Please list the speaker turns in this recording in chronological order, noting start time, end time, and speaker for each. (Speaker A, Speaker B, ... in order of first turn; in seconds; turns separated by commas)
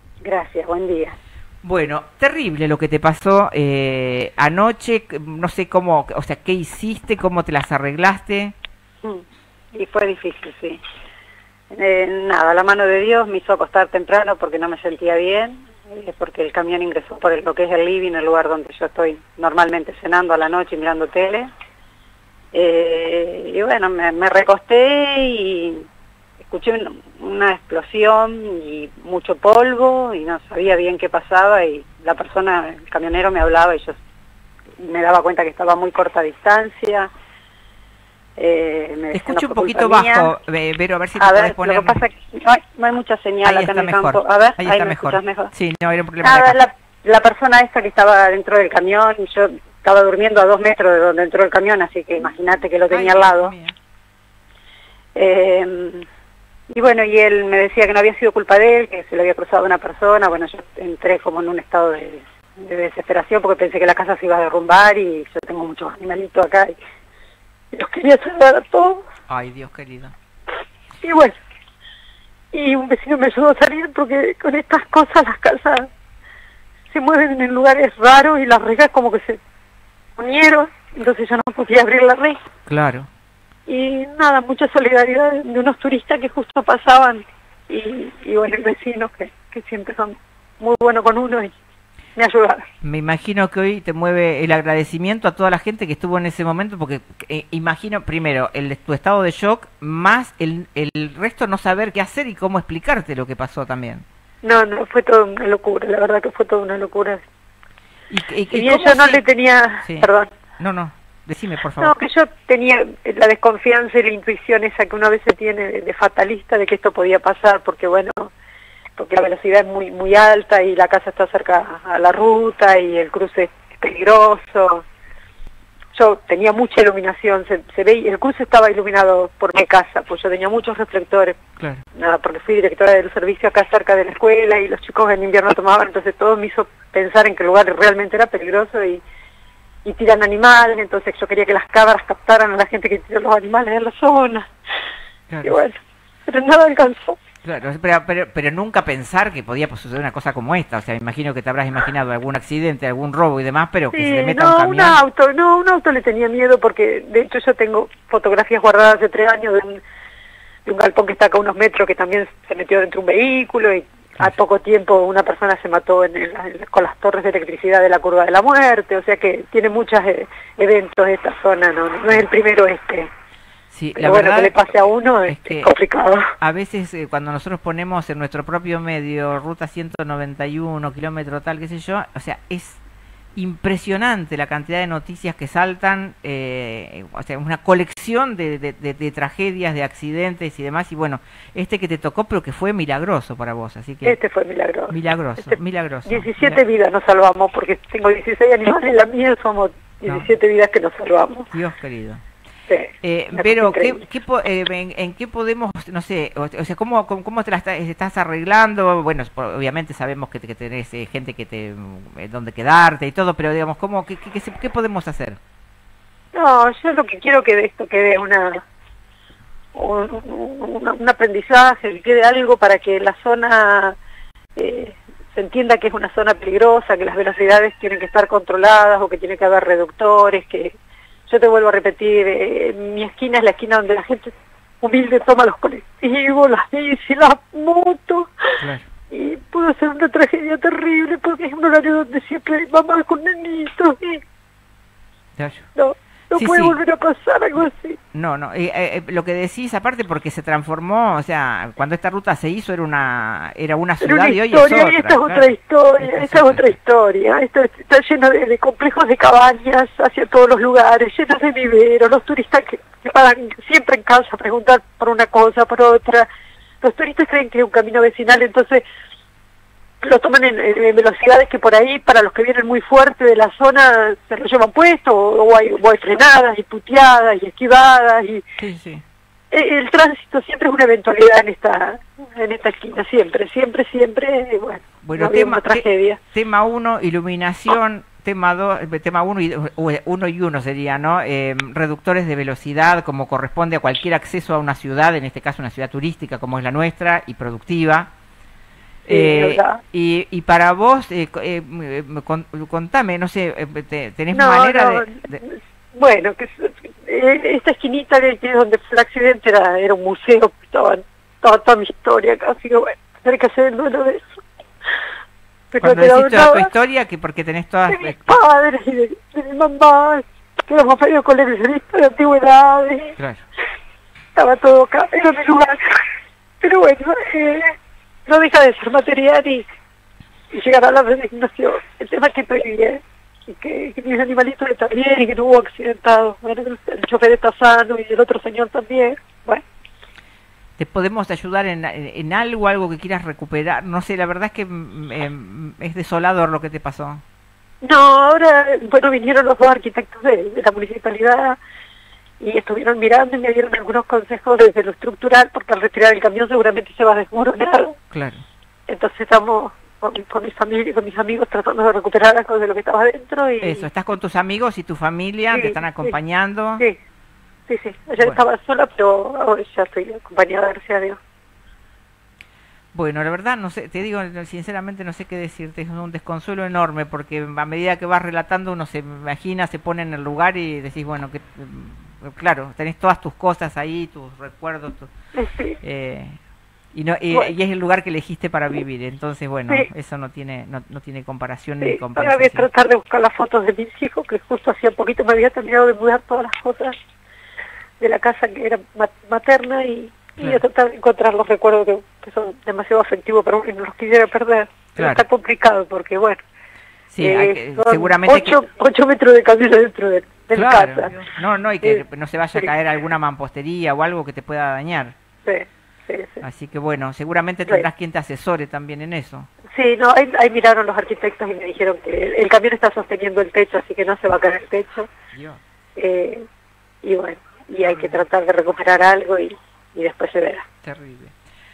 Speaker A: 0.2-1.1, Speaker B: 1.6-8.5, Speaker A: 9.0-10.8, Speaker A: 11.7-21.5, Speaker A: 22.5-25.9, Speaker A: 26.4-34.0, Speaker A: 34.8-37.1, Speaker A: 38.4-40.3, Speaker B: 39.1-42.0, Speaker A: 41.2-45.5, Speaker B: 43.4-46.6, Speaker A: 46.2-53.5, Speaker B: 52.9-53.8, Speaker A: 55.1-56.0, Speaker A: 56.7-66.8, Speaker A: 67.7-69.0, Speaker B: 69.3-70.1, Speaker A: 71.0-71.4, Speaker A: 72.5-75.9, Speaker A: 76.9-79.4, Speaker A: 80.2-82.4, Speaker B: 82.7-83.1, Speaker A: 83.7-91.5, Speaker A: 92.2-92.7, Speaker B: 92.8-104.0, Speaker A: 104.4-107.2, Speaker B: 108.1-109.2, Speaker A: 108.5-110.3, Speaker B: 109.8-111.9, Speaker A: 111.8-118.3, Speaker A: 119.0-124.8, Speaker A: 125.9-131.4, Speaker B: 131.6-131.8, Speaker A: 131.9-139.0, Speaker A: 139.8-144.5, Speaker B: 145.3-145.6, Speaker A: 145.4-147.2, Speaker B: 147.4-155.0, Speaker A: 153.9-159.8, Speaker A: 160.7-173.1, Speaker B: 173.7-174.6, Speaker A: 173.9-176.3, Speaker B: 175.3-175.7, Speaker B: 176.4-182.8, Speaker B: 183.3-194.2, Speaker A: 194.0-201.5, Speaker B: 194.9-196.6, Speaker B: 200.1-200.3, Speaker B: 201.5-202.2, Speaker A: 202.7-204.0, Speaker B: 203.0-215.4, Speaker A: 216.3-218.6, Speaker A: 219.7-224.0, Speaker A: 224.6-230.8, Speaker A: 231.3-238.6, Speaker B: 238.6-238.9, Speaker A: 239.1-244.2, Speaker B: 245.4-245.7, Speaker A: 245.7-248.0, Speaker B: 246.3-246.8, Speaker B: 248.1-256.7, Speaker A: 254.0-266.3, Speaker A: 266.8-268.8, Speaker A: 270.0-278.4, Speaker B: 278.6-279.0, Speaker A: 279.5-286.2, Speaker B: 285.0-298.1, Speaker A: 299.1-299.8, Speaker B: 299.1-305.4, Speaker A: 304.3-314.4, Speaker A: 315.7-316.7, Speaker B: 315.8-318.3, Speaker A: 317.9-323.2, Speaker A: 324.3-326.0, Speaker A: 326.6-327.7, Speaker A: 328.2-329.6, Speaker A: 330.5-339.6, Speaker B: 340.8-347.2, Speaker A: 347.8-351.6, Speaker A: 352.4-357.9, Speaker B: 358.1-358.4, Speaker A: 358.9-363.9, Speaker B: 363.6-366.8, Speaker A: 365.5-366.1, Speaker A: 367.7-371.2, Speaker B: 372.9-385.1, Speaker A: 385.4-385.8, Speaker B: 385.8-386.4, Speaker B: 386.9-392.7, Speaker A: 391.8-396.9, Speaker A: 398.0-406.4, Speaker B: 404.9-405.2, Speaker B: 407.1-408.6, Speaker A: 407.2-411.3, Speaker B: 410.5-415.1, Speaker A: 415.4-416.4, Speaker B: 416.4-419.5, Speaker A: 419.7-425.1, Speaker B: 425.3-425.6, Speaker A: 425.9-426.4, Speaker A: 427.0-430.6, Speaker B: 427.8-428.2, Speaker B: 430.8-431.3